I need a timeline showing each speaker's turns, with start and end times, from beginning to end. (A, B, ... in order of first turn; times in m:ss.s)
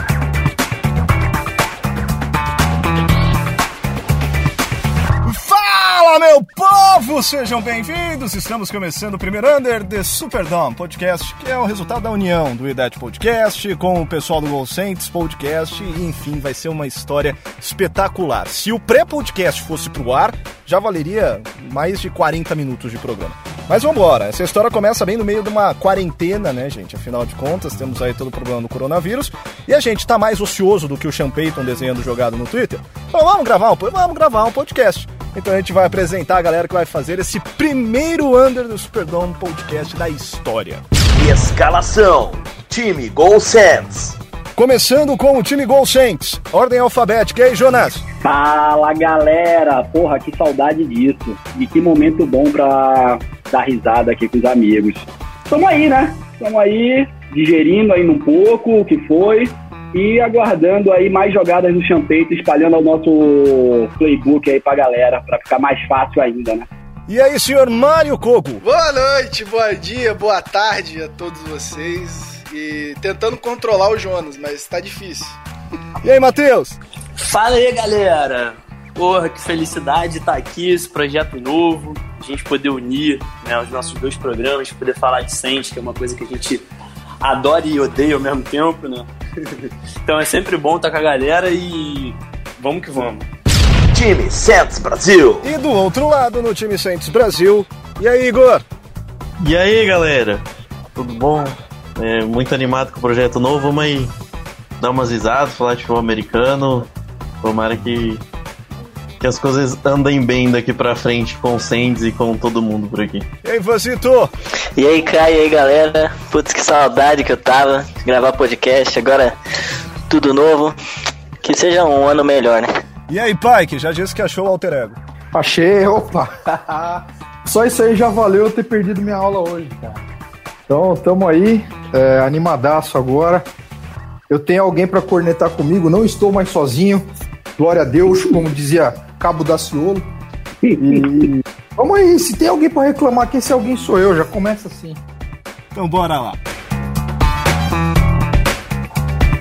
0:05.2-0:40.8 A
0:41.1-0:44.2 B
0:44.6-0:48.0 A
0:48.2-1:06.7 C
1:07.1-1:08.6 A
1:08.6-1:15.4 D
1:16.0-1:16.8 A
1:17.2-1:26.6 E
1:27.2-1:33.3 E
1:33.9-1:35.5 B
1:35.4-1:38.6 A
1:39.4-1:40.4 F
1:41.0-1:44.1 F
1:44.8-1:46.9 F
1:47.4-1:48.2 F
1:49.2-1:53.3 F
1:53.4-1:54.3 A
1:54.8-1:59.4 G
2:00.1-2:00.8 G
2:01.4-2:02.7 G
2:03.1-2:05.0 A
2:05.3-2:10.0 H
2:10.7-2:13.4 H
2:14.3-2:17.1 H
2:17.6-2:20.1 H
2:20.6-2:21.1 C
2:20.8-2:25.0 H
2:25.8-2:26.4 A